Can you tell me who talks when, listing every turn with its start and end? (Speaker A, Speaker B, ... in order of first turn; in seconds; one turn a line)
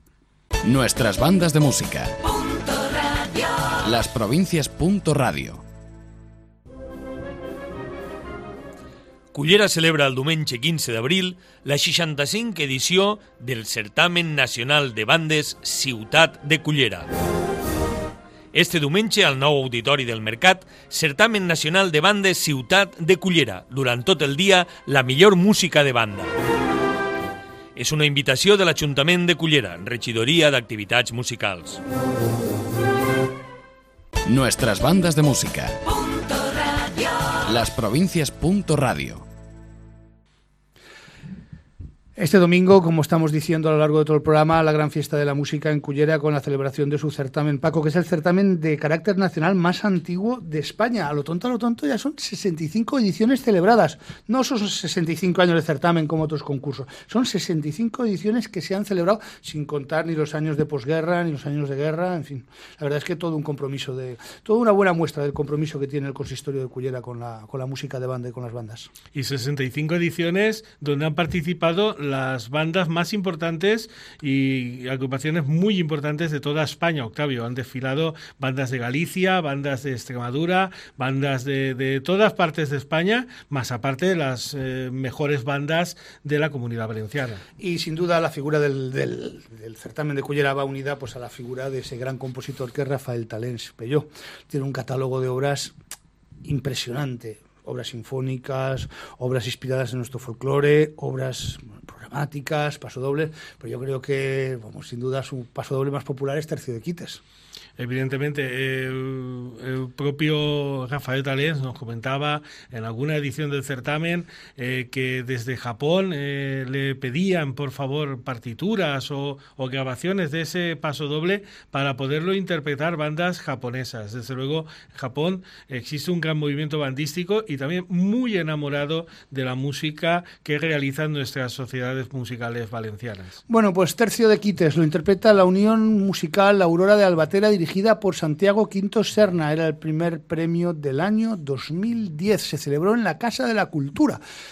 Speaker A: 0.6-2.2
Speaker A: 3.8-5.6
Speaker B: 9.3-17.1
Speaker B: 18.5-26.3
Speaker B: 27.8-31.8
Speaker A: 34.2-35.8
Speaker A: 37.4-39.2
Speaker C: 42.2-68.9
Speaker D: 69.1-87.4
Speaker C: 87.6-95.7
Speaker C: 96.4-107.2
Speaker D: 107.8-133.4
Speaker C: 133.5-144.2